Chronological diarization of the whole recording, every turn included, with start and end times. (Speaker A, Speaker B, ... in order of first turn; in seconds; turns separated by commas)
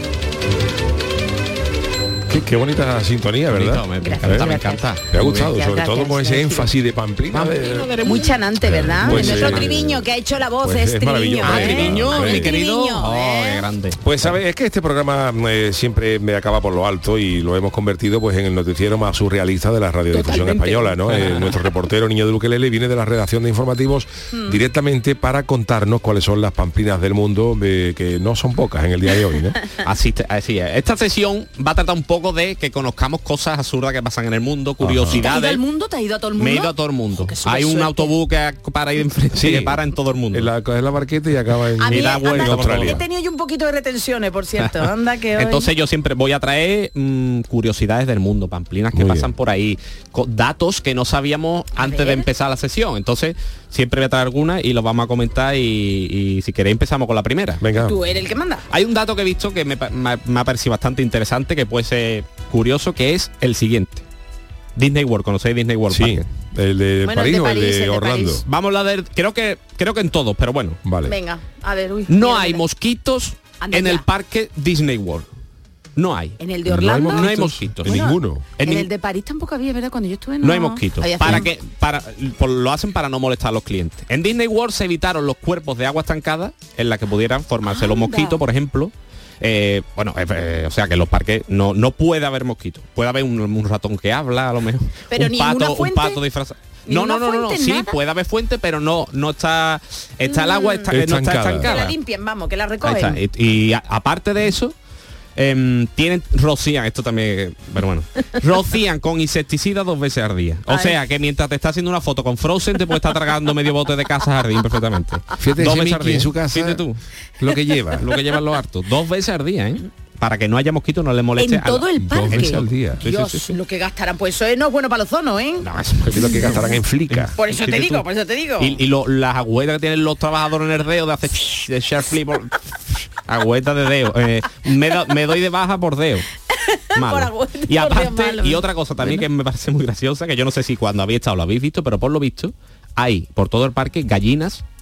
Speaker A: 2.3-4.5, Speaker B: 3.5-5.4, Speaker C: 4.0-6.7, Speaker A: 5.1-7.9, Speaker B: 7.3-9.8, Speaker C: 8.0-13.7, Speaker A: 8.7-10.1, Speaker A: 10.6-12.5, Speaker B: 11.4-14.3, Speaker A: 14.0-29.6, Speaker C: 20.1-21.0, Speaker B: 21.1-21.4, Speaker C: 24.3-24.6, Speaker B: 29.8-35.6, Speaker A: 34.8-35.2, Speaker C: 35.1-38.1, Speaker B: 36.4-40.5, Speaker A: 39.3-43.0, Speaker C: 41.8-45.7, Speaker B: 41.8-43.0, Speaker B: 45.4-57.6, Speaker A: 48.9-49.3, Speaker C: 51.8-52.3, Speaker A: 57.6-58.0, Speaker C: 57.8-58.7, Speaker B: 58.7-64.0, Speaker B: 64.8-66.3, Speaker A: 65.9-68.4, Speaker C: 67.0-68.4, Speaker B: 68.4-70.8, Speaker A: 70.8-71.2, Speaker C: 71.0-72.6, Speaker B: 72.1-75.3, Speaker C: 73.6-74.0, Speaker B: 76.0-78.0, Speaker C: 76.4-77.3, Speaker A: 76.7-78.5, Speaker C: 77.8-81.5, Speaker B: 78.6-78.9, Speaker B: 80.4-102.0, Speaker C: 87.7-88.4, Speaker C: 95.1-96.2, Speaker C: 96.9-98.0, Speaker C: 100.3-100.9, Speaker A: 100.9-101.7, Speaker C: 101.6-103.2, Speaker B: 102.8-104.8, Speaker B: 105.4-117.0, Speaker C: 110.7-111.0, Speaker A: 115.4-116.8, Speaker A: 117.4-118.1, Speaker B: 118.0-123.5, Speaker C: 121.4-125.7, Speaker A: 122.0-123.0, Speaker B: 125.6-128.1, Speaker A: 126.1-127.3, Speaker C: 127.4-128.8, Speaker B: 128.6-136.3, Speaker C: 136.5-139.2, Speaker B: 136.9-144.6